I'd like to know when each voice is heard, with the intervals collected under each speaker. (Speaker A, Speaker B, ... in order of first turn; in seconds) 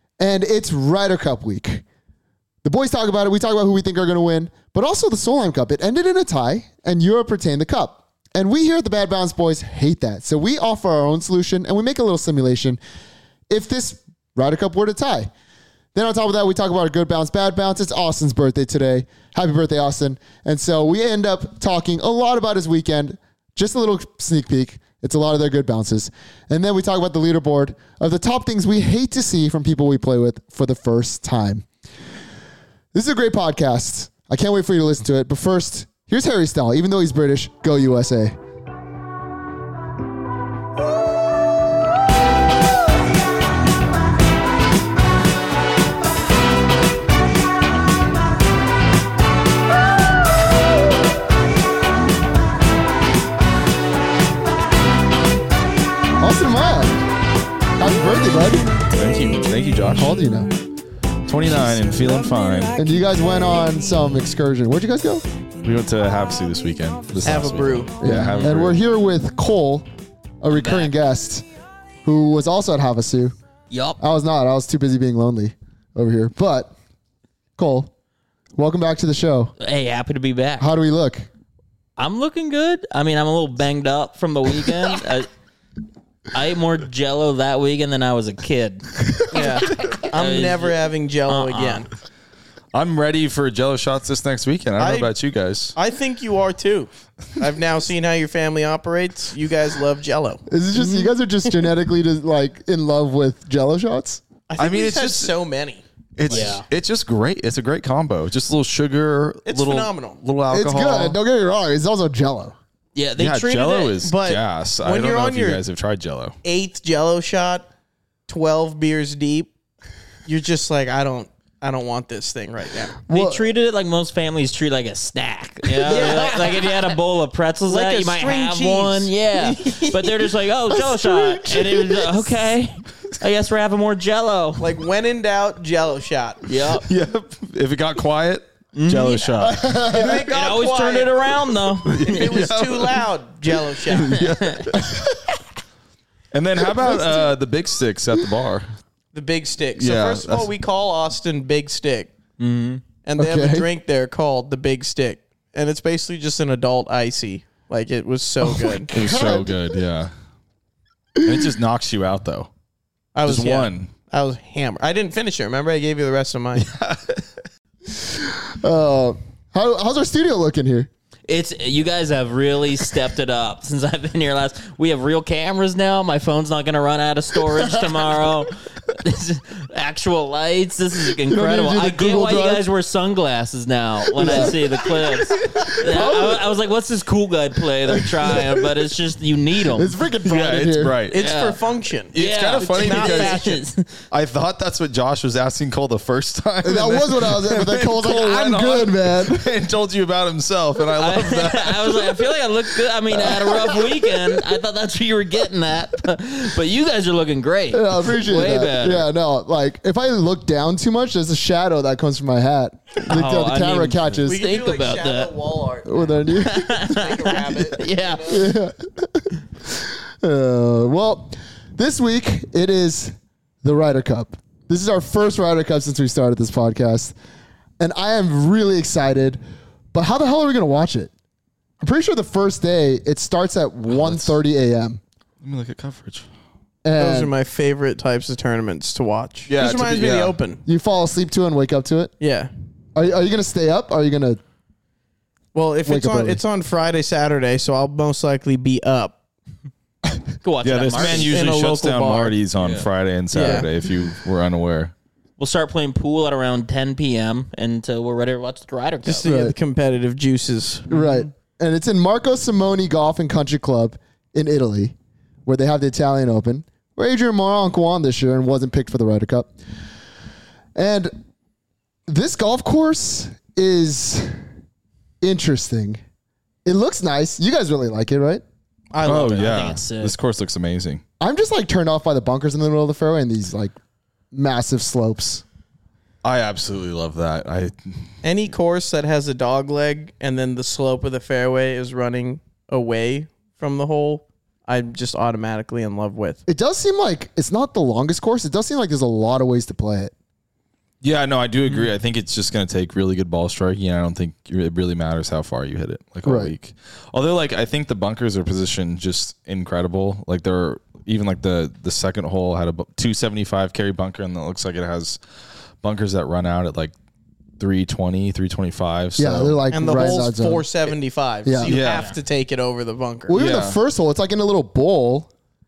Speaker A: 0.2-1.8, 2.6-12.8, 13.5-15.3, 15.9-31.6, 32.9-38.4, 56.2-57.0, 57.8-58.7, 59.9-60.5, 62.8-65.2, 68.0-69.8, 70.4-71.5, 72.0-73.3, 74.0-76.7, 77.6-77.9, 78.5-79.5, 80.6-81.3, 100.5-104.2, 110.5-112.5, 123.1-123.5, 126.0-126.2, 130.7-132.5, 139.4-140.2, 153.2-153.7, 158.4-159.5, 168.0-170.9, 181.3-182.6, 184.1-184.6, 185.5-186.4, 189.7-191.0, 196.6-199.5, 207.7-214.4, 215.8-216.8, 218.3-227.1, 227.8-229.4, 229.9-231.1, 231.8-235.0, 236.8-237.3, 240.7-242.1, 242.9-244.4, 245.8-246.4, 259.2-259.5, 260.9-264.9, 265.4-269.5, 270.8-271.1, 272.1-274.4, 275.2-276.0, 276.6-278.4, 281.2-283.7, 284.3-285.4, 296.5-300.1, 306.2-306.5, 319.2-320.6, 321.4-321.7, 323.3-325.3
Speaker B: 58.9-60.1, 61.2-62.8, 65.6-68.8, 92.7-95.7, 104.6-105.3, 106.2-111.2, 113.2-116.4, 136.7-139.7, 141.8-145.0, 146.3-148.7, 149.8-150.5, 158.9-160.1, 161.2-162.5, 163.2-163.9, 166.6-167.3, 188.3-188.6, 190.2-191.3, 192.1-193.5, 194.1-202.3, 203.1-203.6, 233.9-234.4, 235.4-236.3, 239.5-240.3, 250.6-254.9, 279.0-281.0, 286.2-288.1, 301.0-315.2, 315.8-316.9, 317.6-319.6, 321.6-322.1, 323.3-323.8
Speaker C: 67.2-67.9, 89.3-91.9, 94.8-95.1, 95.7-101.1, 104.5-106.5, 109.5-110.2, 113.7-115.6, 116.4-117.7, 118.3-119.5, 120.2-123.0, 125.8-126.9, 127.7-130.3, 134.6-136.5, 139.8-141.3, 142.0-144.3, 149.1-152.1, 153.0-158.9, 163.1-166.7, 191.1-193.6, 214.2-218.6, 237.0-240.6, 242.2-242.5, 245.5-249.2, 251.0-252.3, 253.3-253.7, 259.0-261.2, 278.9-279.6, 288.2-296.4, 319.7-323.4
Speaker D: 70.5-70.9, 73.7-74.0, 79.6-80.7, 82.0-85.3, 86.3-91.8, 106.3-106.7, 112.9-113.9, 123.1-134.8, 136.4-136.9, 138.7-142.4, 144.1-144.7, 152.4-152.8, 171.3-189.9, 191.1-191.6, 192.1-194.0, 201.0-209.1, 213.0-215.3, 216.3-218.4, 250.4-251.4, 252.6-252.8, 255.4-259.3, 279.3-280.1, 321.8-322.1